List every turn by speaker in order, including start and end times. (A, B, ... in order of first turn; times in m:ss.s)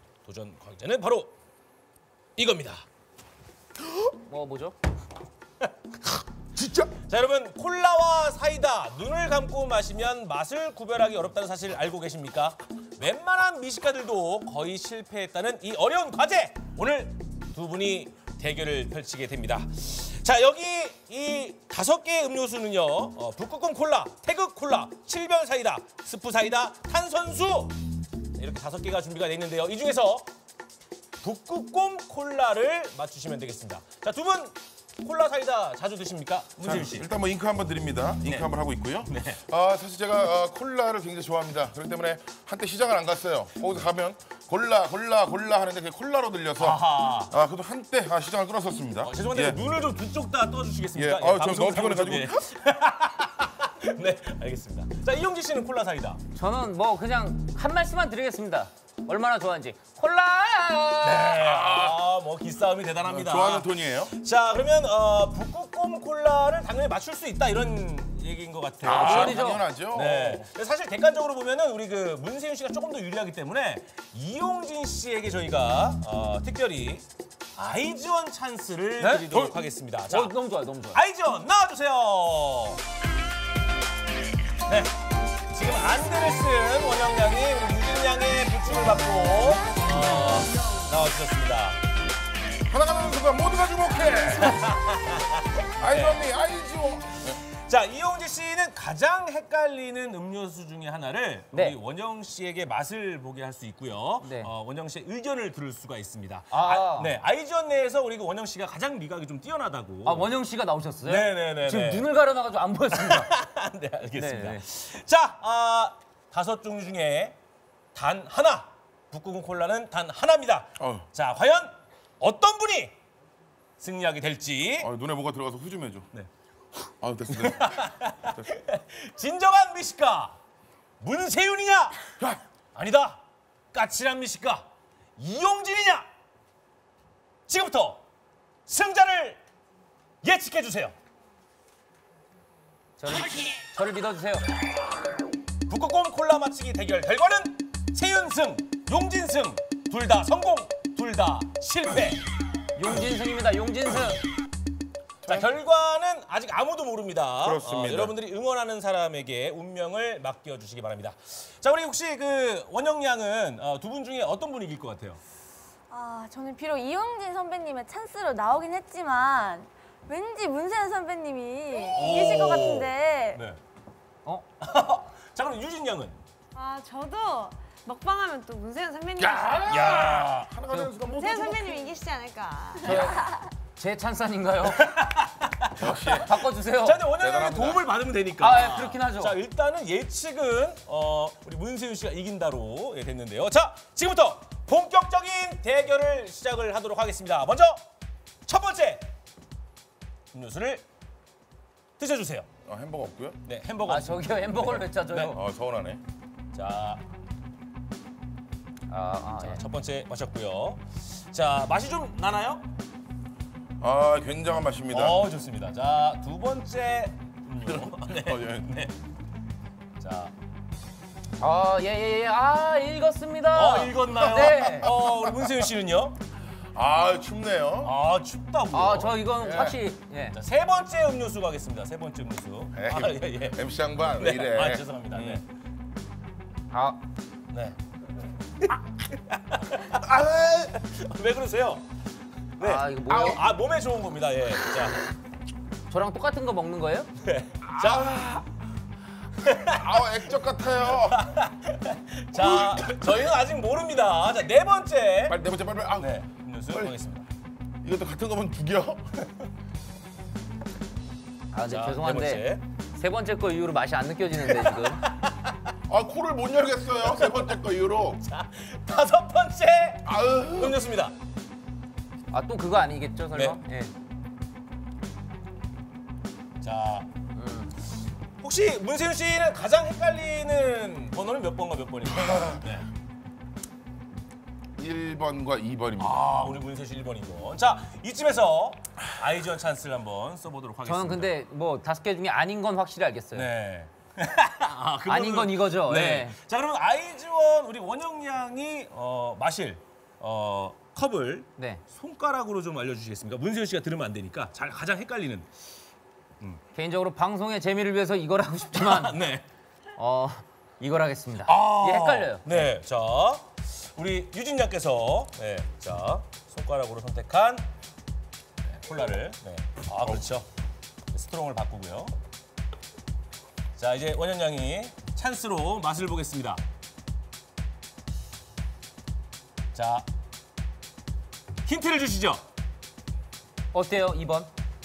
0:00.2-0:01.3 A
0:02.4-0:02.8 A
0:04.2-0:04.8 B
0:06.6-0:06.9 C
0:06.9-0:27.8 A
0:28.4-0:30.3 A
0:31.2-0:37.1 A
0:36.6-0:49.6 C
0:38.2-0:38.5 A
0:39.1-0:39.4 A
0:46.6-0:47.3 A
0:49.0-0:56.2 A
0:50.9-0:52.4 C
0:56.3-1:01.4 B
1:01.0-1:17.0 A
1:01.4-1:02.0 C
1:03.0-1:04.1 C
1:08.8-1:10.4 C
1:08.8-1:09.7 B
1:17.6-1:20.3 A
1:19.0-1:19.4 B
1:20.1-1:21.0 B
1:20.9-1:22.8 A
1:24.7-1:24.9 A
1:25.5-1:31.8 A
1:32.6-1:34.8 C
1:34.4-1:36.2 A
1:35.8-1:37.4 C
1:37.2-1:50.3 A
1:44.2-1:44.5 B
1:46.5-1:47.1 B
1:50.0-1:53.3 B
1:51.0-1:52.1 A
1:52.9-1:57.4 A
1:54.1-1:54.6 B
1:57.9-2:02.9 A
2:00.8-2:01.0 C
2:03.8-2:04.9 A
2:04.8-2:06.1 C
2:06.8-2:07.8 C
2:07.3-2:10.4 A
2:11.0-2:12.0 A
2:12.7-2:14.6 A
2:15.2-2:16.1 A
2:17.5-2:18.0 A
2:18.7-2:19.4 A
2:20.2-2:20.9 A
2:23.0-2:24.5 B
2:25.7-2:32.2 A
2:32.8-2:34.3 B
2:35.2-2:35.5 C
2:35.2-2:45.2 A
2:37.4-2:38.1 C
2:45.9-2:53.4 D
2:51.9-2:53.6 A
2:54.6-2:56.2 A
2:56.6-3:00.0 E
2:59.2-3:01.9 C
2:59.6-3:00.5 A
3:01.0-3:02.9 E
3:02.8-3:05.0 B
3:02.9-3:03.2 A
3:02.9-3:03.4 D
3:04.6-3:17.8 A
3:05.8-3:06.3 C
3:05.8-3:07.0 B
3:07.1-3:07.8 C
3:08.4-3:09.4 B
3:18.4-3:19.0 A
3:20.3-3:20.8 A
3:22.0-3:22.5 A
3:22.6-3:23.4 C
3:23.4-3:25.4 A
3:23.8-3:25.4 B
3:25.3-3:26.0 C
3:26.5-3:27.0 A
3:28.9-3:29.6 B
3:29.4-3:32.6 A
3:33.8-3:35.2 C
3:34.9-3:38.9 A
3:37.6-3:38.8 C
3:40.0-3:40.3 A
3:41.4-3:44.9 B
3:43.5-3:46.2 A
3:44.1-3:45.5 C
3:46.7-3:47.9 C
3:47.8-3:49.8 A
3:48.7-3:50.4 B
3:49.4-3:49.8 C
3:50.3-3:53.6 A
3:52.7-3:55.4 C
3:54.1-3:55.4 A
3:56.7-3:57.0 B
3:58.6-4:01.8 A
4:02.6-4:05.0 A
4:02.6-4:03.4 B
4:05.9-4:07.1 B
4:07.2-4:08.2 A
4:07.7-4:08.5 C
4:09.4-4:10.1 A
4:09.6-4:11.2 C
4:10.9-4:15.4 A
4:12.4-4:13.0 C
4:15.3-4:16.2 C
4:16.0-4:17.3 A
4:17.8-4:19.1 C
4:21.5-4:25.0 B
4:21.6-4:22.6 A
4:24.4-4:25.5 A
4:25.9-4:28.2 C
4:27.2-4:27.5 A
4:28.2-4:31.1 A
4:30.0-4:30.8 C
4:32.3-4:33.9 B
4:33.3-4:33.6 A
4:36.6-4:37.1 A
4:37.3-4:37.7 B
4:38.4-4:42.9 A
4:44.8-4:46.2 C
4:46.0-4:51.4 A
4:50.8-4:53.5 B
4:53.3-5:05.5 A
4:55.1-4:56.4 B
5:01.6-5:01.8 B
5:06.7-5:09.3 B
5:08.7-5:09.5 A
5:10.0-5:12.7 B
5:11.4-5:17.6 A
5:18.6-5:20.5 A
5:21.1-5:22.1 A
5:23.8-5:26.6 A
5:29.7-5:30.0 A
5:31.6-5:32.4 A
5:33.7-5:34.5 B